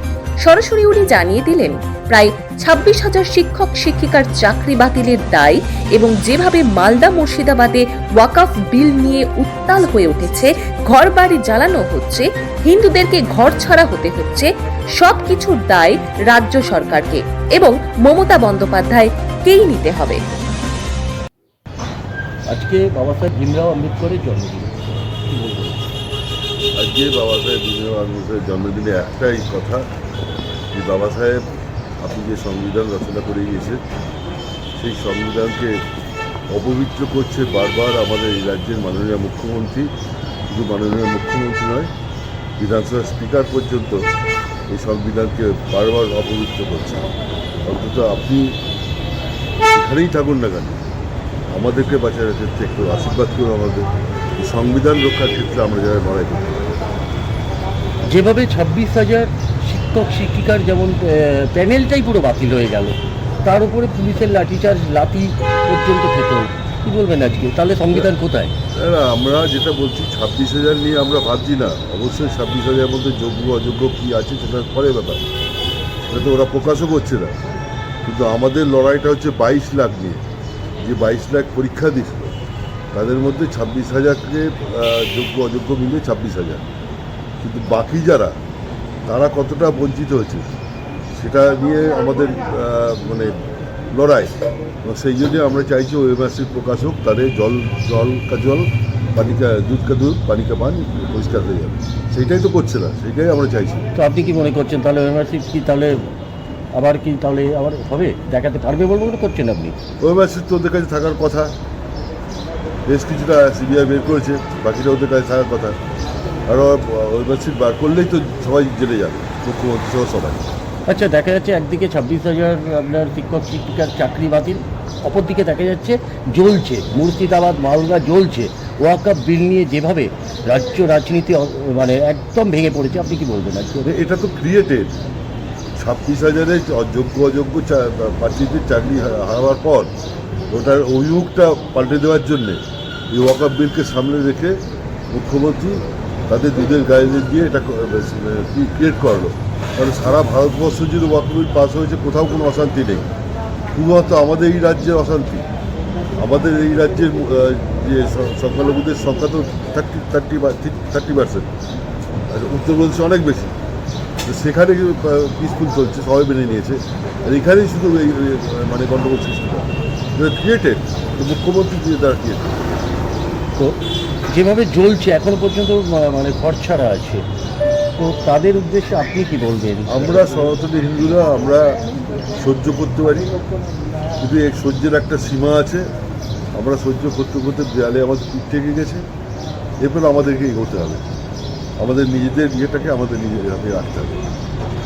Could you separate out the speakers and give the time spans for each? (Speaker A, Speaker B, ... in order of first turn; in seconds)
Speaker A: 0.4-20.2
Speaker B: 22.5-24.7, 25.3-25.8, 58.0-68.5, 104.0-106.0, 106.8-109.8, 120.9-133.9, 173.6-177.3, 178.0-180.4
Speaker C: 26.8-29.9, 30.7-31.4, 32.0-33.8, 34.8-35.8, 36.5-39.9, 40.5-41.9, 42.6-44.0, 44.7-47.1, 47.6-48.5, 49.7-50.8, 51.5-56.7, 68.7-75.2, 76.1-77.3, 78.0-80.2, 80.8-82.3, 82.9-86.7, 87.4-88.4, 89.1-90.5, 91.1-93.4, 93.9-103.9, 110.0-111.5, 112.9-115.8, 116.5-120.5, 133.8-134.9, 135.8-139.9, 140.5-142.6, 143.1-144.6, 145.1-153.1, 153.7-155.5, 156.2-161.5, 162.3-163.5, 164.2-172.7, 179.9-181.8, 182.4-183.3, 184.2-185.9, 186.6-189.1, 189.8-191.2, 191.8-194.2